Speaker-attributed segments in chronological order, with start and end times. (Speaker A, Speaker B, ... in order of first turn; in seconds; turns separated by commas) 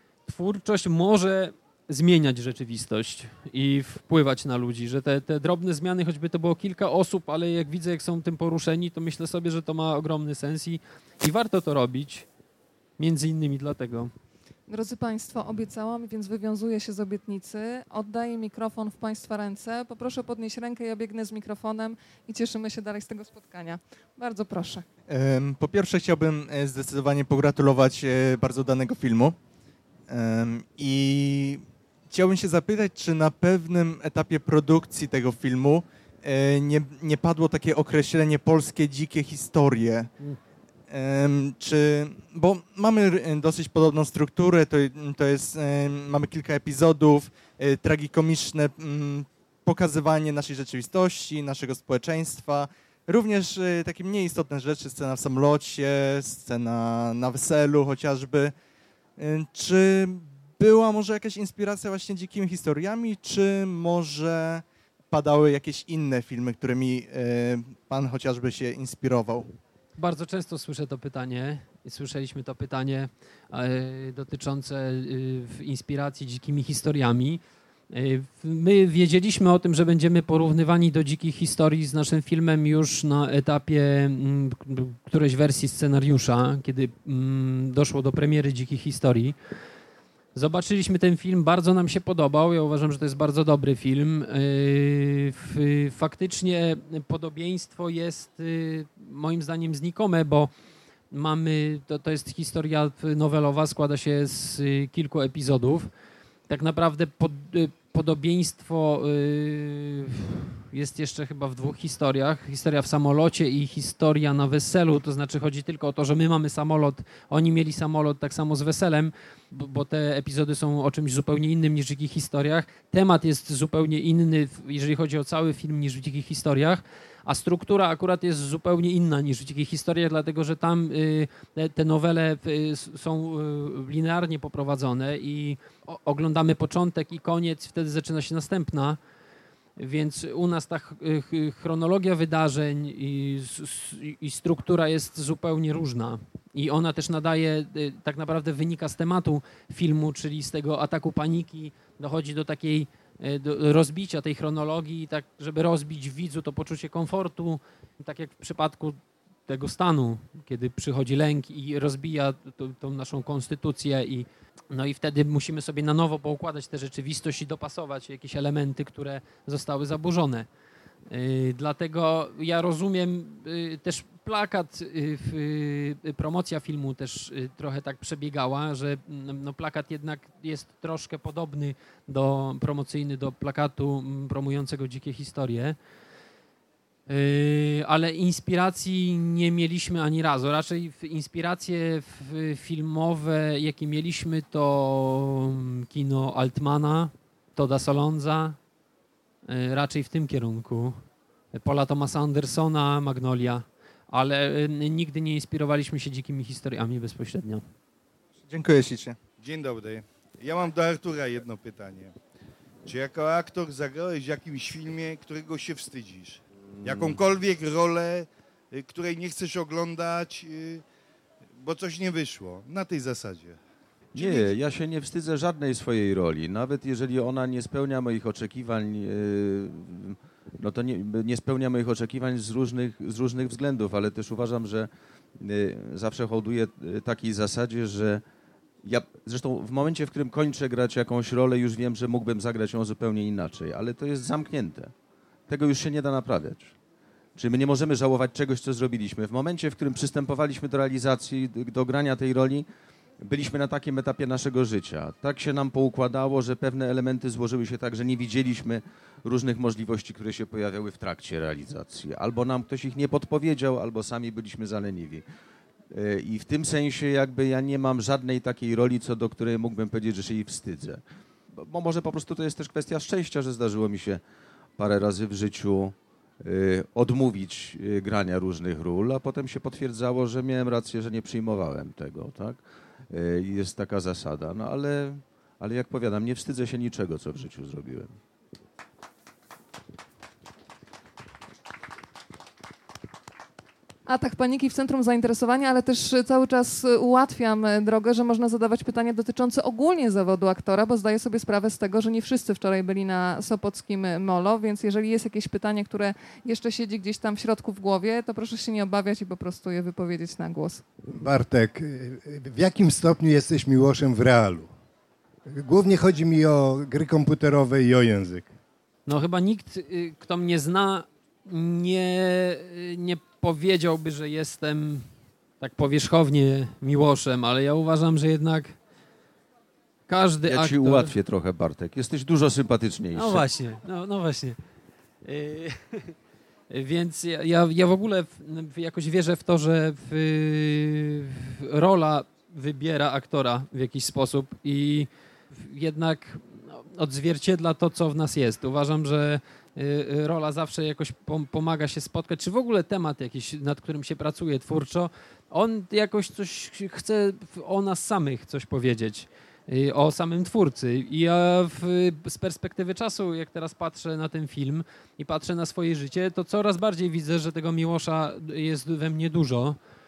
Speaker A: 0.3-12.3, Speaker A: 13.0-14.1, Speaker B: 14.7-24.9, Speaker C: 25.1-29.4, Speaker C: 30.1-40.1, Speaker C: 40.9-58.5, Speaker C: 59.2-69.5, Speaker A: 70.0-89.3, Speaker A: 90.3-100.5, Speaker A: 101.1-105.9, Speaker A: 106.5-139.0, Speaker A: 139.8-170.5, Speaker A: 171.1-185.8, Speaker A: 187.1-198.6, Speaker A: 199.5-201.0, Speaker A: 201.5-207.6, Speaker C: 208.5-209.2, Speaker D: 209.4-212.1, Speaker D: 212.8-220.8, Speaker E: 216.8-217.2, Speaker D: 221.6-223.6, Speaker E: 224.2-238.2, Speaker E: 238.8-244.9, Speaker E: 245.5-246.8, Speaker E: 247.4-252.7, Speaker E: 253.2-265.2, Speaker E: 265.9-271.0, Speaker E: 271.5-274.2, Speaker E: 274.8-288.1, Speaker B: 294.1-310.8, Speaker F: 311.1-314.7, Speaker F: 315.5-318.5, Speaker A: 319.1-325.1, Speaker A: 325.6-328.8, Speaker A: 330.1-331.1, Speaker E: 330.5-333.4, Speaker A: 333.1-334.6, Speaker A: 335.2-336.1, Speaker A: 336.7-369.8